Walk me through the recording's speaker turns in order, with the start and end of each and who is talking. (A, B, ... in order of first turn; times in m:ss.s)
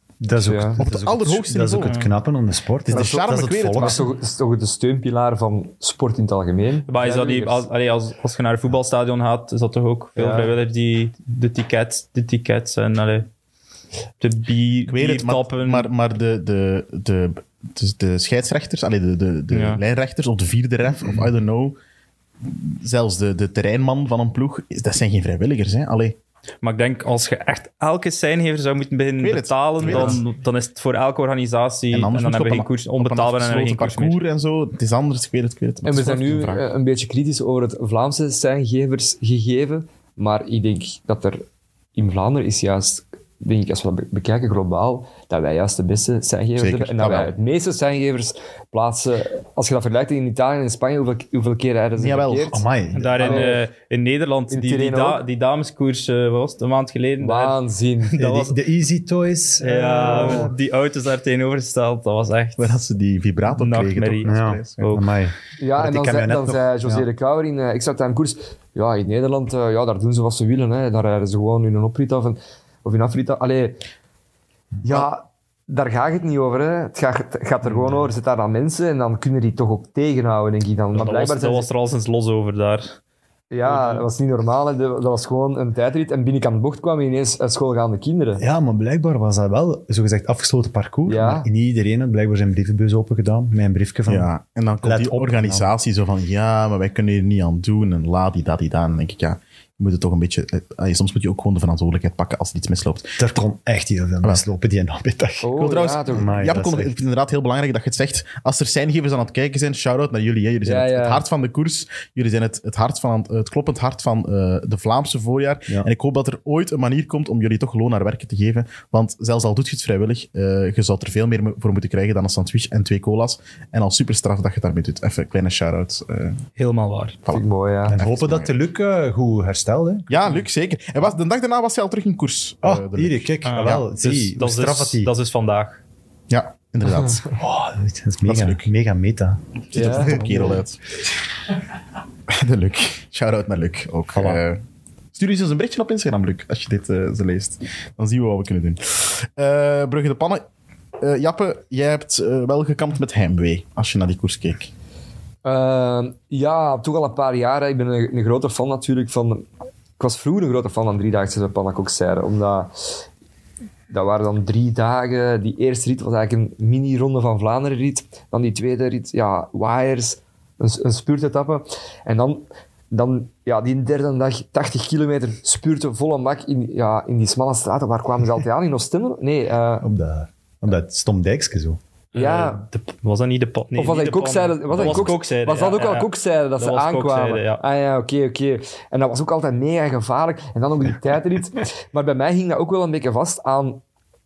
0:00.2-0:04.1 A
0:00.4-0:00.8 B
0:00.8-0:02.0 C
0:01.8-0:02.1 D
0:02.8-0:04.1 C
0:02.9-0:07.6 B
0:06.9-0:13.3 D
0:10.2-0:10.5 B
0:14.2-0:15.9 D
0:14.9-0:21.8 C
0:19.5-0:19.8 D
0:22.4-0:26.2 C
0:26.6-0:34.2 D
0:29.2-0:30.2 C
0:29.9-0:30.1 B
0:31.9-0:36.7 C
0:35.8-0:41.4 B
0:42.0-0:52.6 B
0:46.6-0:47.3 C
0:52.0-0:52.6 C
0:52.5-0:53.5 A
0:53.0-0:57.6 D
0:53.2-0:53.6 B
0:54.5-0:55.2 B
0:57.2-0:58.6 B
0:58.2-1:00.6 A
0:59.6-1:02.8 D
1:02.6-1:04.8 C
1:03.5-1:05.1 D
1:04.2-1:07.1 A
1:05.6-1:13.8 B
1:14.8-1:21.7 B
1:17.8-1:18.1 A
1:21.0-1:23.0 D
1:23.5-1:28.4 B
1:23.7-1:24.0 D
1:28.4-1:34.3 A
1:31.1-1:31.5 B
1:34.1-1:43.2 C
1:34.8-1:35.7 A
1:43.2-1:45.5 A
1:45.4-1:46.5 B
1:45.6-2:06.4 C
1:46.1-1:47.0 A
1:50.6-1:51.2 B
2:06.6-2:07.2 D
2:07.2-2:08.5 C
2:07.3-2:08.0 B
2:07.9-2:10.3 A
2:10.1-2:13.8 C
2:12.6-2:15.1 A
2:13.4-2:15.8 D
2:16.3-2:17.4 C
2:17.4-2:20.6 A
2:18.2-2:18.6 C
2:19.7-2:20.8 C
2:19.7-2:20.2 B
2:22.3-2:24.6 C
2:24.1-2:24.4 A
2:25.2-2:30.4 C
2:31.0-2:34.7 C
2:35.4-2:39.5 B
2:40.0-2:43.0 B
2:43.9-2:59.9 B
2:59.8-3:01.8 A
3:02.1-3:07.6 D
3:02.2-3:02.6 B
3:03.8-3:13.8 B